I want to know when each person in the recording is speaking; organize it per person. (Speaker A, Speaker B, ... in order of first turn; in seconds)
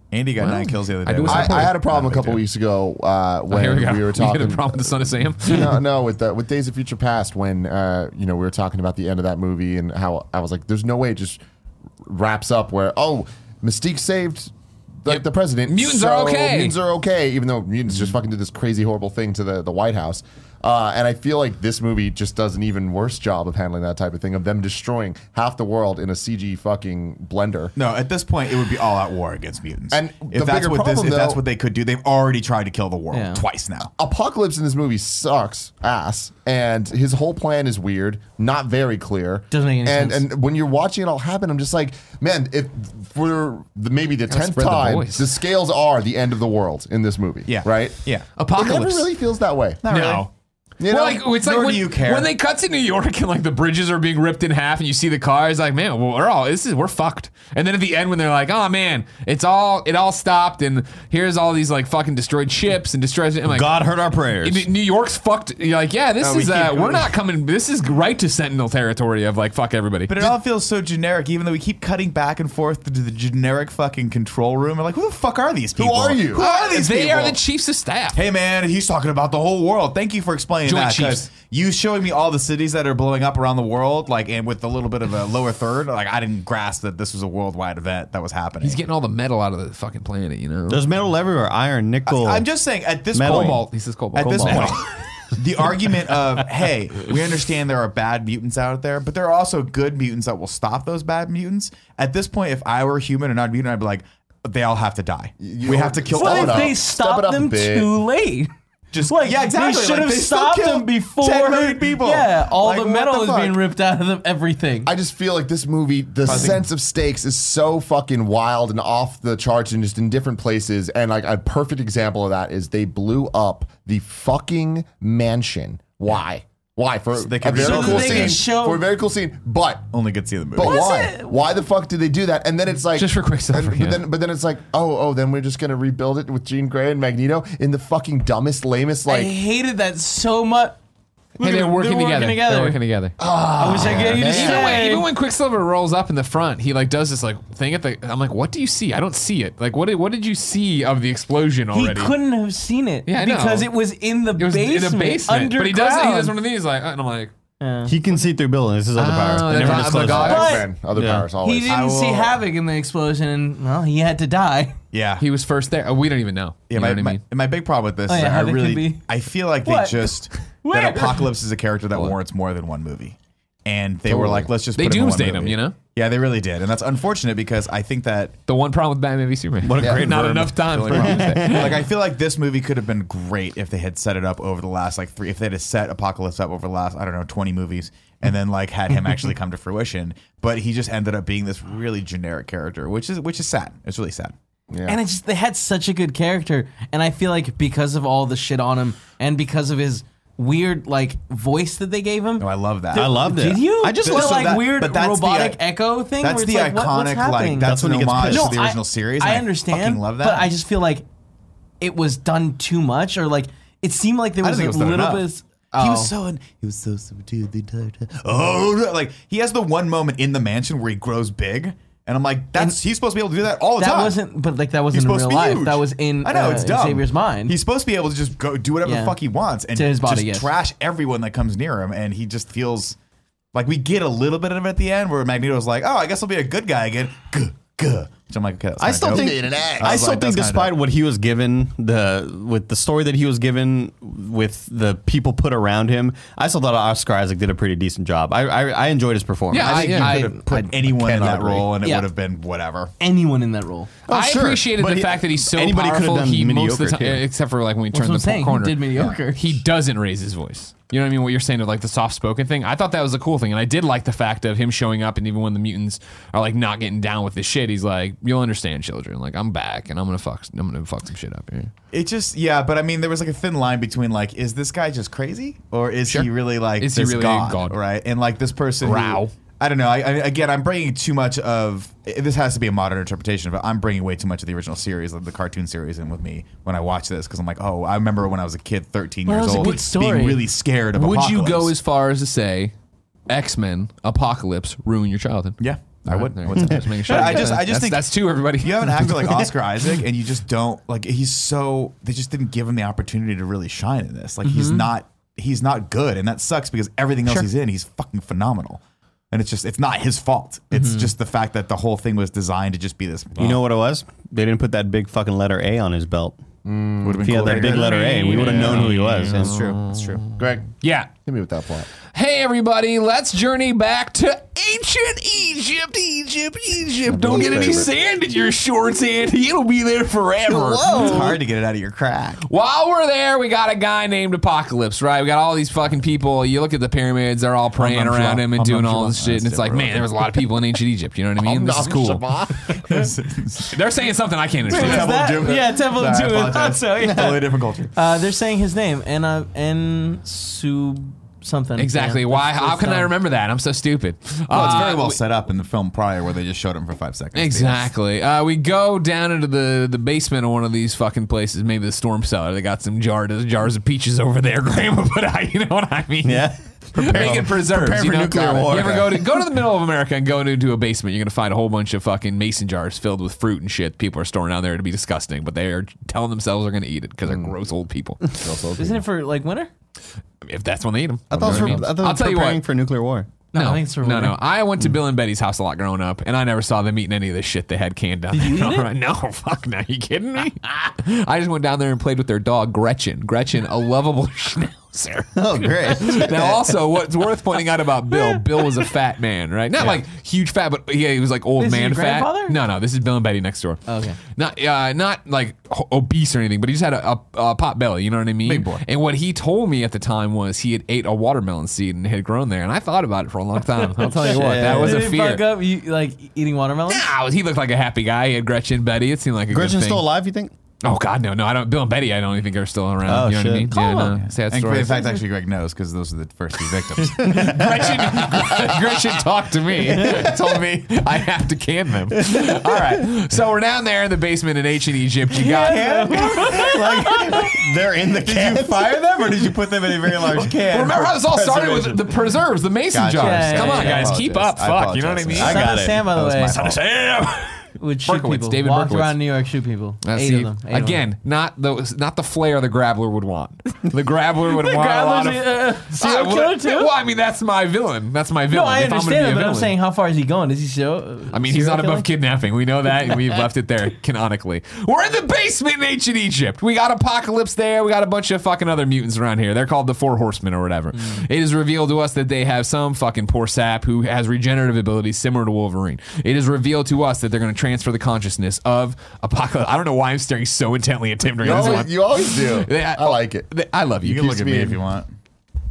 Speaker A: 0.1-2.4, 27.8-33.9, 47.5-48.3, 49.8-50.3, 51.2-52.3, 66.2-67.1, 70.1-77.4, 78.1-88.8, 92.1-106.8, 108.9-113.6, 116.2-116.6, 127.2-128.4, 129.9-130.9, 161.7-162.4, 164.9-165.2, 166.7-178.4, 180.7-194.3, 202.4-203.2, 204.0-205.6, 206.2-210.5, 214.4-224.2, 224.9-233.0, 233.5-240.8, 249.5-252.9, 271.9-291.8, 295.6-313.6, 317.0-320.1, 330.9-332.4, 337.8-340.1, 342.9-343.8, 344.7-347.9, 354.5-357.9, 408.4-408.8, 424.2-428.6, 430.0-430.9, 435.5-437.5, 438.1-442.4, 442.9-446.8, 484.0-485.1
Speaker B: 0.4-2.2, 3.5-5.8, 15.1-16.8, 44.3-45.3, 48.4-49.1, 49.9-50.3, 50.9-63.7, 64.4-70.4, 76.3-78.2, 80.7-81.3, 88.6-90.8, 93.3-94.9, 132.9-134.0, 141.4-143.2, 144.0-152.2, 153.1-153.7, 154.4-157.3, 158.9-160.6, 165.2-167.2, 174.8-175.8, 178.5-181.8, 249.5-250.3, 254.1-271.7, 276.8-277.8, 278.8-279.3, 290.9-292.7, 293.3-299.5, 317.6-320.2, 320.8-321.1, 322.1-331.3, 332.4-342.8, 343.7-345.3, 351.8-355.2, 357.3-378.4, 380.4-382.6, 383.6-403.8, 404.3-415.4, 416.9-420.1, 420.8-425.1, 427.2-436.7, 440.5-445.7, 446.5-449.2, 450.0-459.7, 461.3-484.5
Speaker C: 1.2-11.4, 12.1-14.5, 15.0-27.7, 29.9-31.4, 34.0-48.0, 48.5-49.8, 50.8-51.2, 75.8-76.5, 105.4-107.9, 114.9-129.8, 130.5-139.3, 143.2-144.8, 159.7-161.8, 174.1-174.5, 179.8-180.1, 194.7-195.0, 239.1-240.1, 316.6-317.9, 320.4-321.9, 327.1-327.9, 330.5-331.4, 341.4-343.1, 368.5-369.1, 377.3-377.5, 378.3-379.1, 481.4-483.5, 484.1-484.8
Speaker D: 33.1-33.4, 39.5-40.3, 106.1-108.5, 109.0-114.9, 127.5-128.8, 130.6-131.3, 139.1-140.8, 141.4-142.8, 143.6-145.1, 151.7-156.4, 157.6-157.9, 160.0-160.7, 161.4-164.8, 168.1-169.0, 169.6-170.1, 170.6-171.2, 194.9-207.7, 208.2-211.1, 211.8-216.1, 223.8-227.6, 228.8-229.2, 229.7-230.5, 249.7-250.7, 251.8-252.1, 253.0-253.9, 257.9-259.6, 289.3-290.4, 297.1-297.5, 304.4-304.9, 310.7-311.1, 344.7-353.1, 378.8-379.7, 383.5-384.4, 388.3-388.9, 401.6-402.6, 403.9-404.2, 413.8-417.1, 423.7-424.2, 435.3-436.8, 443.1-444.1, 445.4-446.6, 447.8-451.0, 454.5-456.9, 458.5-462.1, 470.9-471.2
Speaker E: 63.5-64.7, 90.7-92.5, 93.1-93.7, 94.2-94.8, 157.9-161.2, 179.6-181.7, 202.9-204.6, 207.6-208.5, 238.8-250.0, 251.0-251.6, 254.1-257.2, 296.6-296.8, 313.4-316.4, 317.2-319.6, 366.2-369.4, 381.3-383.3, 395.4-396.7, 414.2-415.0, 419.5-420.5, 423.1-423.7, 429.9-430.3, 432.1-433.0, 436.5-438.9, 440.0-440.4, 445.4-446.0